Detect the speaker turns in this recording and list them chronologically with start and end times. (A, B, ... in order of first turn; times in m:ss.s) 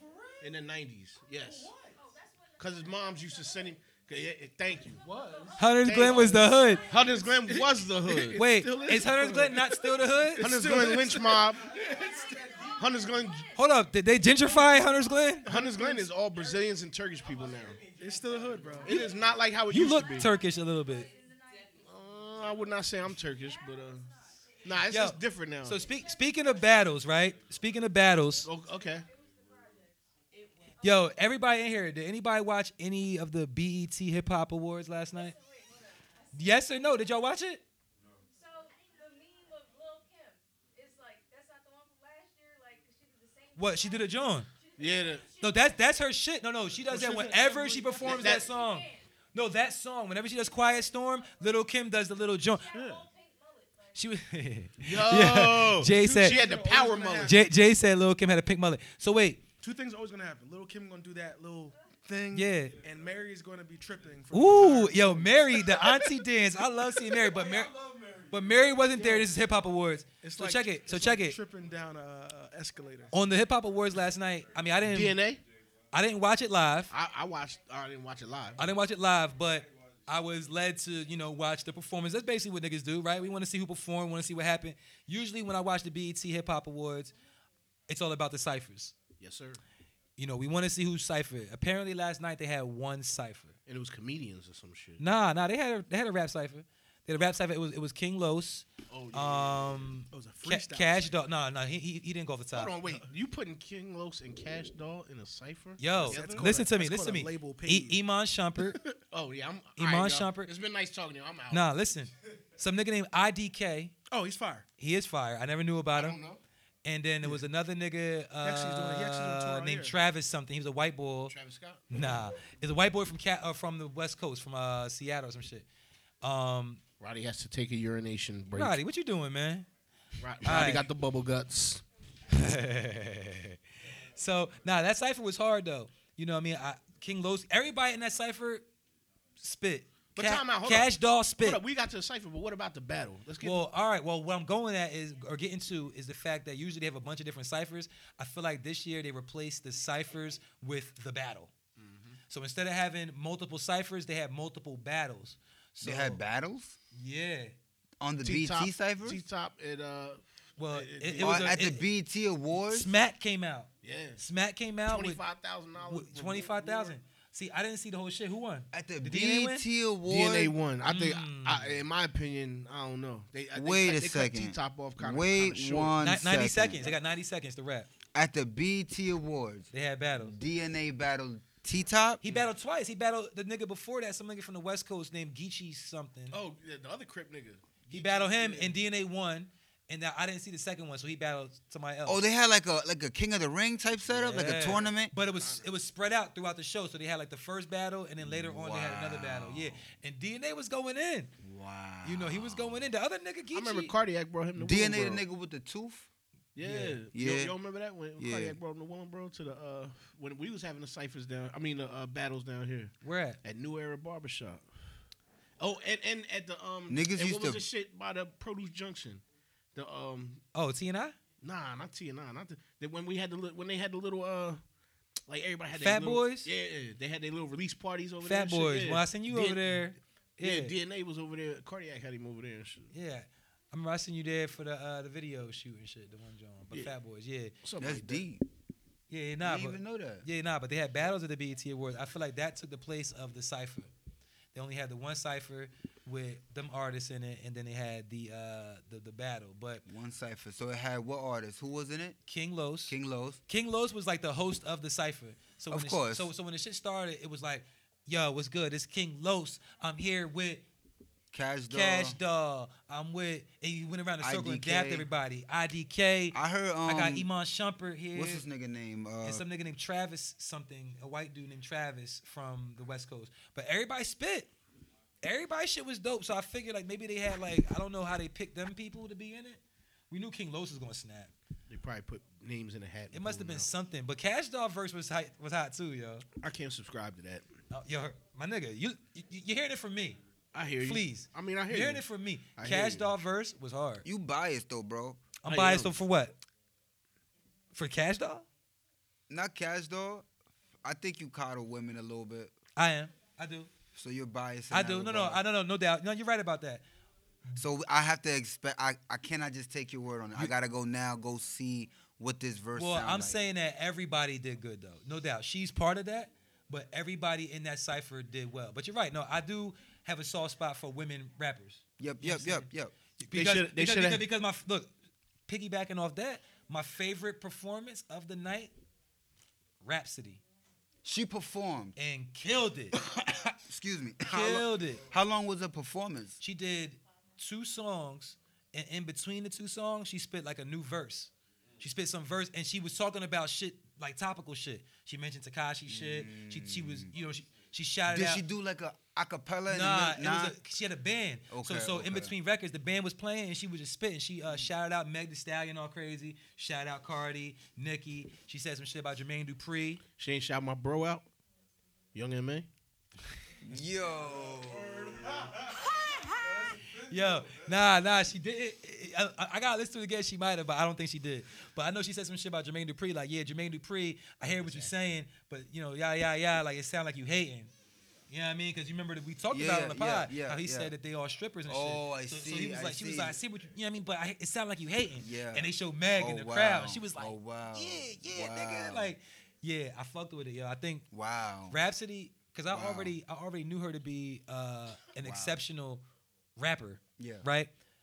0:00.4-0:01.7 A
0:01.4-0:01.9 B
0:01.9-0:04.0 C
0:02.6-0:05.0 A
0:05.0-0:07.5 C
0:05.0-0:06.5 B
0:05.6-0:06.8 D
0:05.8-0:08.4 A
0:07.4-0:12.9 B
0:08.4-0:10.6 D
0:10.4-0:11.8 A
0:10.7-0:13.7 C
0:12.8-0:13.5 A
0:13.5-0:15.4 D
0:14.2-0:15.4 C
0:15.4-0:16.1 B
0:15.4-0:17.8 A
0:16.4-0:16.6 C
0:17.3-0:18.4 C
0:18.0-0:19.0 B
0:18.8-0:20.3 A
0:19.7-0:21.1 D
0:20.1-0:25.0 C
0:21.8-0:24.0 A
0:24.6-0:25.8 A
0:24.9-0:28.5 D
0:25.6-0:31.2 C
0:28.4-0:29.1 A
0:30.8-0:35.3 D
0:35.1-0:37.3 C
0:36.3-0:37.6 D
0:38.3-0:46.0 C
0:43.6-0:44.5 D
0:44.8-0:45.2 A
0:45.4-0:52.7 D
0:46.9-0:48.1 B
0:47.8-0:49.2 C
0:48.0-0:48.4 A
0:50.3-0:54.1 C
0:52.7-0:53.0 B
0:54.0-0:56.4 D
0:54.8-0:57.4 A
0:55.9-0:57.4 B
0:57.2-0:59.4 D
0:59.6-1:06.1 B
1:02.3-1:02.8 D
1:04.3-1:07.7 D
1:07.1-1:08.3 B
1:08.3-1:11.4 D
1:08.9-1:09.3 B
1:10.2-1:13.1 B
1:13.1-1:15.2 D
1:14.8-1:15.4 A
1:15.9-1:16.9 D
1:16.9-1:18.6 A
1:18.6-1:27.1 D
1:27.9-1:28.9 D
1:29.2-1:29.6 A
1:30.2-1:33.6 D
1:33.7-1:35.0 A
1:35.0-1:42.7 D
1:38.9-1:39.8 A
1:40.1-1:41.1 B
1:42.5-1:46.5 A
1:45.8-1:48.8 D
1:46.0-1:48.0 B
1:48.6-1:49.0 B
1:49.1-1:51.7 A
1:49.8-1:50.5 D
1:51.5-1:53.9 D
1:54.1-1:54.6 B
1:54.8-1:56.2 D
1:55.9-1:56.4 A
1:56.8-2:01.3 D
1:58.4-1:59.9 B
2:01.3-2:02.1 A
2:01.9-2:05.6 D
2:06.2-2:06.8 D
2:07.0-2:08.8 A
2:08.5-2:09.7 D
2:10.2-2:11.8 A
2:10.4-2:10.9 D
2:12.3-2:13.6 D
2:14.2-2:18.6 D
2:19.4-2:21.6 D
2:20.1-2:23.6 A
2:23.4-2:31.5 D
2:31.8-2:32.2 A
2:32.3-2:36.2 D
2:35.8-2:36.8 E
2:36.9-2:37.5 D
2:38.0-2:39.2 E
2:38.2-2:41.6 A
2:40.6-2:41.9 D
2:41.2-2:42.9 E
2:42.6-2:45.2 D
2:43.8-2:44.2 A
2:44.9-2:47.0 A
2:45.9-2:49.6 D
2:48.7-2:50.5 E
2:50.1-2:56.0 A
2:50.8-2:51.8 D
2:53.5-2:56.9 E
2:56.0-2:57.9 D
2:58.1-3:02.2 E
2:59.7-3:00.3 D
3:02.2-3:06.4 D
3:06.3-3:08.8 A
3:07.9-3:12.2 D
3:12.0-3:15.1 E
3:14.1-3:21.3 D
3:15.1-3:15.7 A
3:18.2-3:19.8 E
3:21.4-3:22.9 E
3:22.0-3:23.9 D
3:23.5-3:25.2 A
3:24.6-3:26.1 E
3:26.6-3:32.9 A
3:26.6-3:27.0 D
3:27.1-3:27.5 E
3:28.2-3:28.6 E
3:33.0-3:33.4 D
3:33.4-3:34.6 A
3:35.6-3:39.2 A
3:36.9-3:37.6 E
3:39.7-3:40.4 A
3:40.5-3:41.2 D
3:41.4-3:44.6 A
3:45.3-3:52.9 A
3:45.8-3:46.5 D
3:48.2-3:50.7 D
3:52.9-3:57.5 D
3:57.6-3:58.2 A
3:57.8-3:58.4 E
3:59.1-4:03.9 D
3:59.4-4:00.2 E
4:04.5-4:09.8 D
4:09.8-4:12.2 E
4:12.3-4:13.0 D
4:12.9-4:13.4 E
4:13.5-4:20.6 D
4:15.7-4:16.3 E
4:21.3-4:22.2 E
4:21.7-4:26.4 D
4:24.2-4:25.1 E
4:26.3-4:27.3 E
4:26.9-4:28.4 D
4:28.1-4:29.4 E
4:29.2-4:34.5 D
4:35.2-4:41.3 D
4:41.7-4:43.7 A
4:43.1-4:46.2 D
4:46.4-4:47.4 A
4:47.7-4:50.2 D
4:50.5-4:52.0 A
4:50.8-4:54.0 D
4:52.6-4:53.1 A
4:54.0-4:55.2 E
4:55.4-4:56.4 D
4:55.5-4:55.9 A
4:57.7-4:58.4 D
4:59.3-5:00.2 E
5:00.8-5:02.5 E
5:02.8-5:03.7 D
5:03.9-5:05.4 E
5:04.7-5:06.8 D
5:07.6-5:13.4 E
5:12.8-5:22.7 D
5:22.0-5:22.9 E
5:23.2-5:24.9 D
5:23.3-5:24.2 A
5:25.5-5:28.7 D
5:29.8-5:30.4 D
5:31.0-5:31.9 E
5:32.0-5:33.0 D
5:33.6-5:36.4 E
5:34.2-5:35.0 D
5:36.4-5:48.4 D
5:45.9-5:47.1 E
5:48.1-5:50.6 E
5:49.7-6:00.0 D
5:51.5-5:52.3 E
6:00.2-6:01.2 A
6:02.1-6:02.7 A
6:03.6-6:05.5 E
6:05.6-6:17.7 D
6:14.5-6:14.9 E
6:18.3-6:31.1 D
6:19.5-6:20.9 E
6:21.6-6:23.4 E
6:25.2-6:29.2 E
6:31.1-6:31.8 E
6:31.7-6:36.0 D
6:32.7-6:33.1 E
6:35.2-6:35.6 E
6:36.6-6:37.7 D
6:37.2-6:37.4 E